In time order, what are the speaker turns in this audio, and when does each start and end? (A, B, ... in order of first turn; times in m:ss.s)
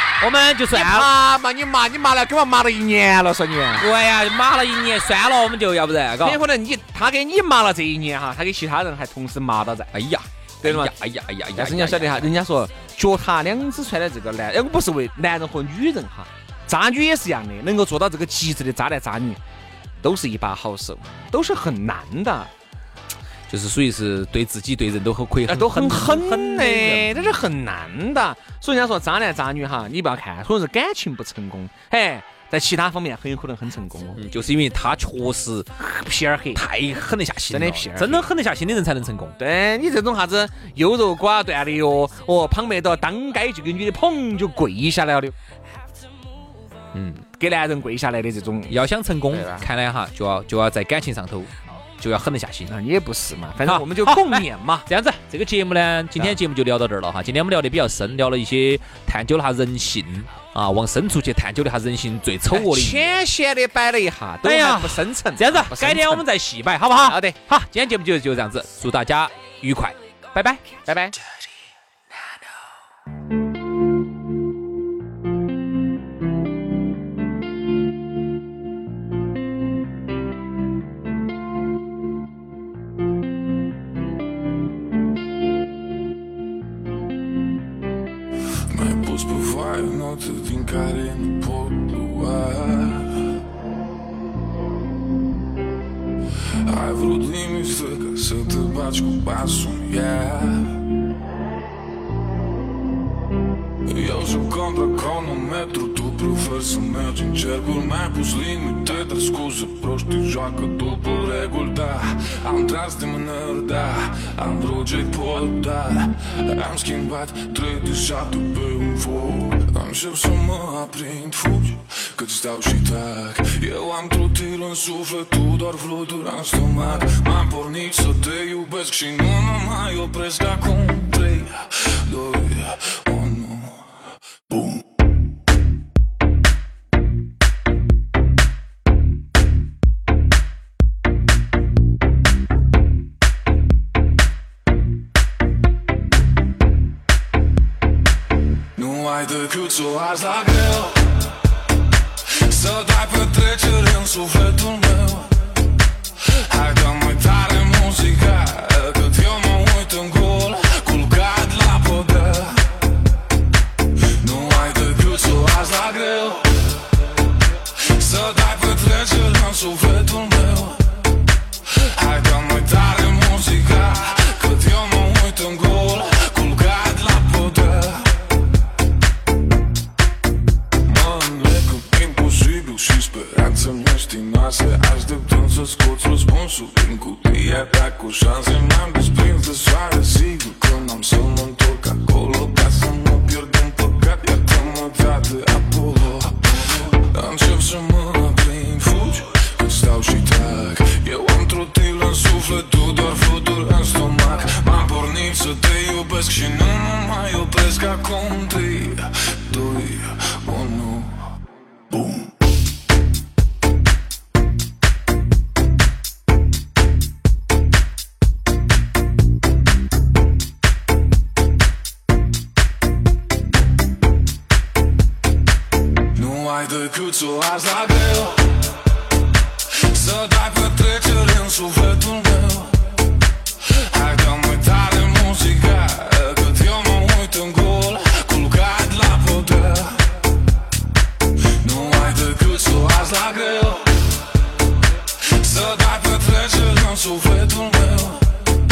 0:00.2-0:01.1 A
0:00.7-0:03.9 B
0:03.7-0:06.4 A
0:06.2-0:09.9 B
0:09.9-0:12.3 A
0:10.6-0:10.9 B
0:11.6-0:19.4 B
0:20.0-0:22.5 B
0:23.5-0:27.4 A
0:25.5-0:34.2 B
0:34.2-0:35.7 A
0:35.8-0:36.6 B
0:36.5-0:39.4 A
0:37.5-0:38.3 B
0:39.4-0:45.3 B
0:46.9-0:47.2 A
0:47.4-0:48.7 B
0:48.7-0:52.7 A
0:49.3-0:49.6 B
0:52.7-0:54.9 B
0:53.6-1:03.1 A
1:02.5-1:06.2 B
1:04.4-1:10.6 A
1:07.0-1:07.4 B
1:10.8-1:11.2 B
1:28.7-1:33.3 C
1:36.6-1:40.8 C
1:43.8-2:13.9 C
2:14.5-2:14.9 C
2:28.8-2:31.2 C
2:32.3-2:35.5 C
2:36.2-2:42.9 C
2:44.2-2:46.8 C
2:47.6-2:51.0 C
2:51.6-2:58.2 C
3:00.8-3:31.3 C
3:31.9-3:32.4 C
3:46.1-3:48.6 C
3:49.7-3:53.0 C
3:53.6-4:00.2 C
4:01.6-4:04.2 C
4:05.2-4:08.5 C